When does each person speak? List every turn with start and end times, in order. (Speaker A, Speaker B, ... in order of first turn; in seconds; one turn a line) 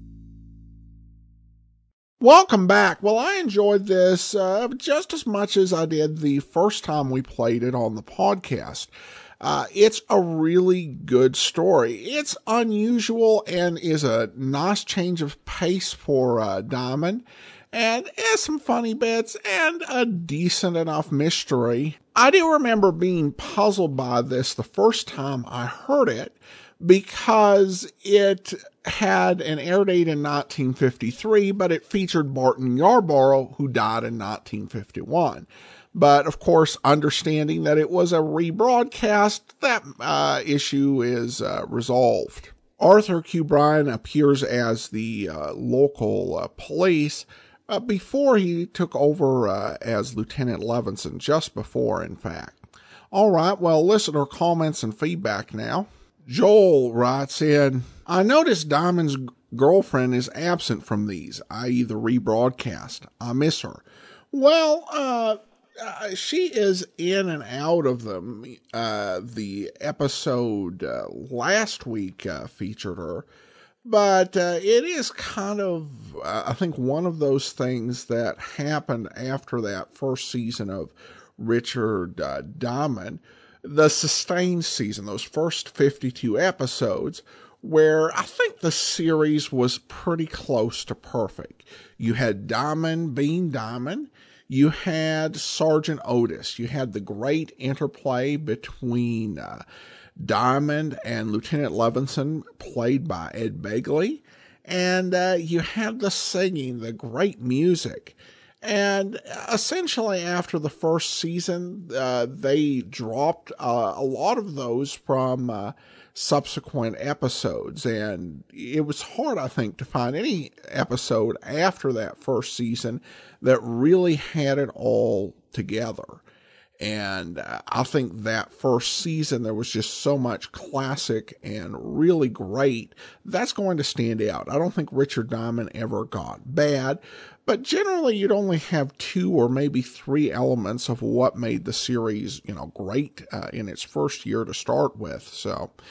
Speaker A: 2.2-8.9
Speaker A: 9.4-73.2
Speaker A: 73.8-99.6
Speaker A: 100.2-126.2
Speaker A: 126.8-145.7